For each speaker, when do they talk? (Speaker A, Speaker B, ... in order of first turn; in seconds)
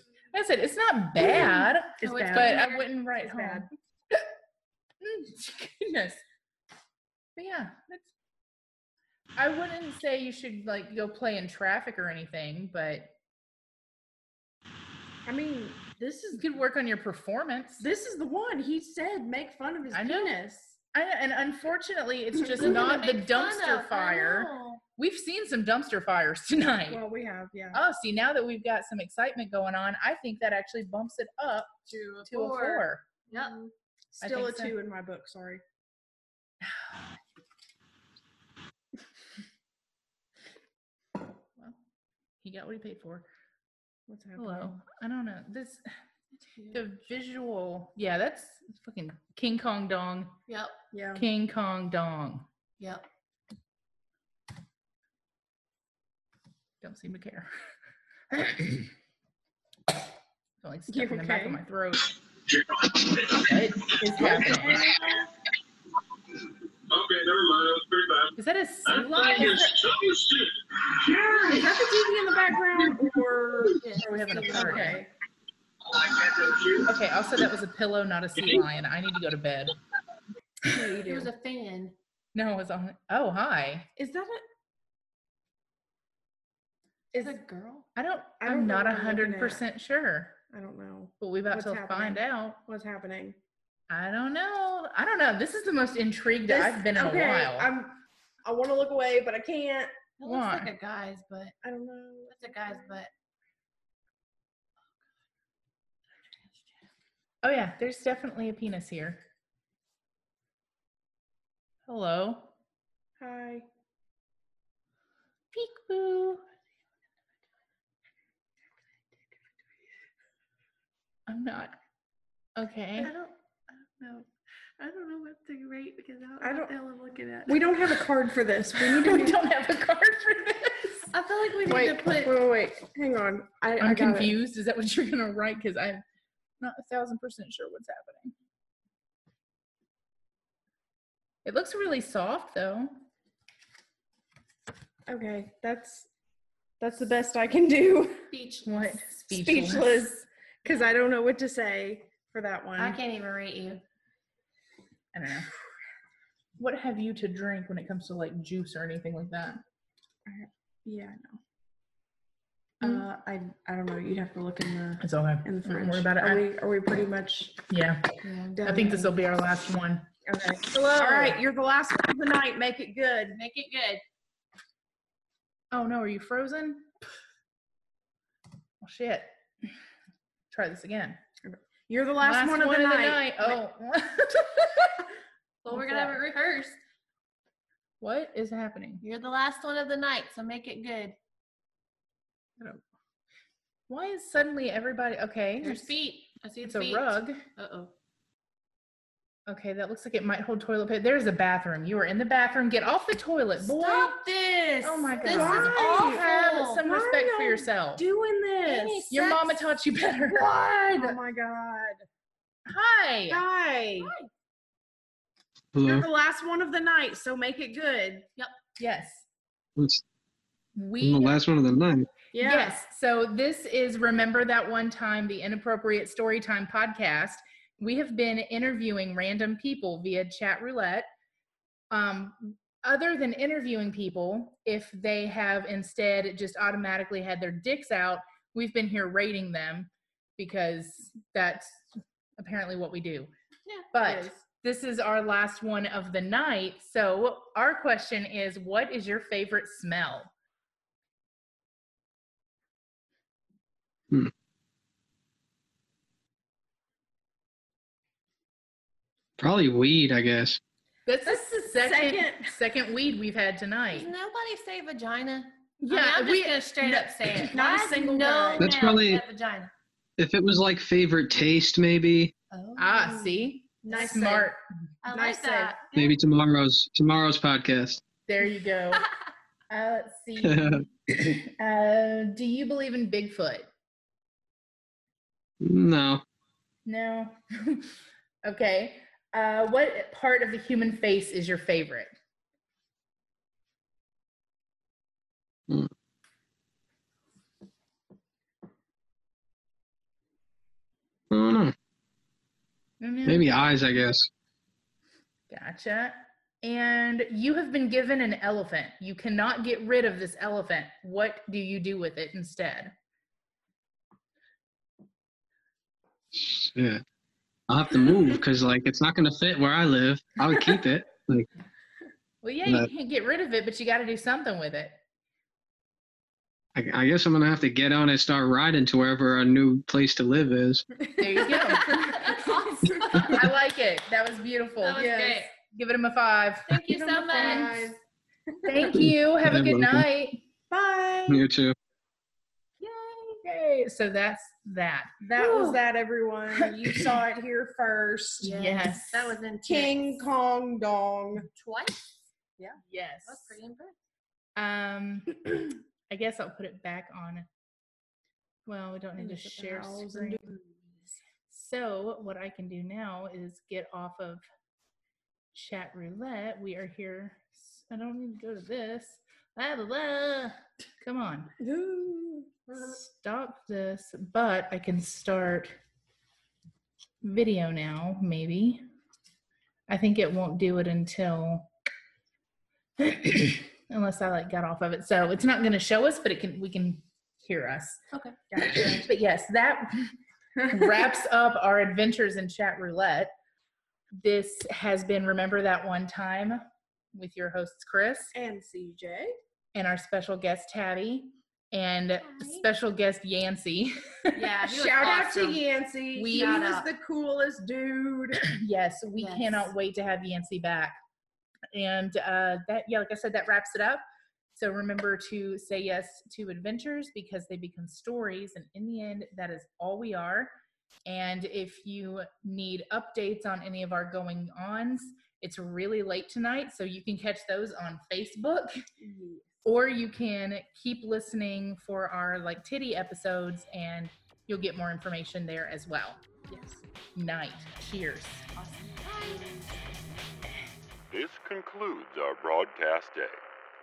Speaker A: 0.3-4.3, 5.0-6.2, 7.4-8.1, 9.4-13.1, 16.4-17.9, 19.9-20.4, 20.9-27.0, 27.7-33.1, 34.2-34.8, 42.4-43.3, 44.4-45.8, 46.7-50.4, 51.1-52.5, 56.8-57.5, 58.4-58.7, 60.6-62.1, 63.4-64.8, 68.4-69.7, 74.0-75.0, 76.9-79.8, 82.3-83.9, 88.0-90.4, 91.2-92.6, 93.9-97.7, 100.2-100.7, 107.4-109.2, 111.9-112.5, 115.5-116.4, 121.3-121.8, 122.6-123.1, 129.0-131.1, 133.8-136.0, 136.6-138.3, 141.4-142.9, 148.7-150.0, 155.1-155.5, 156.6-159.6, 165.0-166.5, 167.7-168.0, 168.6-170.1, 170.7-171.4, 175.7-176.9, 178.8-179.7, 180.5-181.2, 182.2-185.0, 188.0-189.0, 193.9-196.0, 196.6-197.4, 199.5-204.2, 204.8-208.0, 209.1-210.6, 212.7-213.4, 218.8-219.3, 220.8-221.4, 222.4-231.1, 231.9-241.9, 242.4-243.3, 243.9-250.3, 261.1-264.1, 265.8-267.5, 272.8-274.6, 278.3-279.1, 279.7-283.7, 286.9-287.9, 288.4-292.1, 303.0-303.7, 305.5-312.9, 322.4-325.0, 331.2-337.8, 338.6-340.4, 343.4-345.7, 348.4-349.4, 352.8-353.6, 354.6-357.5, 358.7-360.5, 361.4-364.4, 365.5-371.5, 372.8-375.8, 377.2-378.8, 379.9-381.7, 383.0-388.0, 389.0-390.1, 390.7-393.3, 394.2-398.3, 399.8-404.4, 406.1-406.6, 408.5-411.0, 411.7-414.0, 414.6-420.5, 421.1-428.8, 429.6-436.2, 437.1-438.5
Speaker B: 1.2-2.6, 3.1-3.7, 15.2-16.5, 17.8-20.8, 22.4-23.0, 26.9-27.8, 33.3-35.6, 44.1-44.8, 50.9-51.3, 60.9-61.6, 64.4-65.3, 71.1-75.1, 80.7-81.3, 84.0-84.4, 88.4-89.6, 90.5-93.4, 96.5-99.9, 101.6-103.0, 113.2-113.7, 126.4-126.7, 127.5-129.4, 131.7-134.3, 145.1-146.1, 146.8-148.3, 149.3-153.0, 160.3-161.4, 162.8-167.6, 168.6-169.0, 170.3-173.4, 181.4-183.5, 205.2-209.1, 210.6-212.1, 213.3-214.1, 215.8-218.3, 222.3-222.8, 244.0-244.3, 261.3-262.5, 267.5-268.7, 273.8-274.5, 275.1-275.9, 331.0-331.5, 336.9-338.0, 338.5-339.0, 340.7-341.4, 345.2-348.6, 349.6-351.5, 359.2-360.6, 371.6-372.9, 388.5-389.1, 390.6-391.1, 398.3-399.4, 404.6-408.5, 429.0-429.6
Speaker C: 2.0-2.9, 22.6-24.8, 31.9-33.6, 46.4-46.8, 50.5-50.8, 52.8-53.0, 73.8-75.0, 81.1-82.0, 87.2-87.9, 100.2-101.5, 102.3-103.1, 123.0-124.3, 124.8-127.6, 131.1-132.3, 148.3-149.0, 152.8-153.8, 168.2-169.1, 173.3-174.0, 185.6-186.8, 189.0-191.2, 195.6-197.9, 203.6-206.8, 208.6-209.6, 210.4-211.2, 214.0-214.3, 263.9-269.7, 272.5-273.3, 275.0-276.2, 331.7-333.4, 334.8-335.5, 336.7-337.9, 342.9-343.4, 348.4-350.2, 351.5-352.1, 353.2-353.9, 388.1-388.4, 402.2-402.7, 404.4-405.7, 406.3-406.9, 409.2-409.7, 436.5-436.8, 438.6-439.8
Speaker D: 66.9-68.2, 69.0-70.4, 76.1-76.8
Speaker E: 215.8-216.1, 219.8-220.0, 221.0-222.1, 259.4-260.6, 268.6-269.2, 270.2-272.3, 275.9-278.0, 280.4-280.9, 285.6-286.2, 301.3-301.7, 303.2-304.3, 316.4-317.0, 317.7-321.5, 326.8-330.9, 338.9-340.1, 341.3-341.8
Speaker F: 441.1-443.4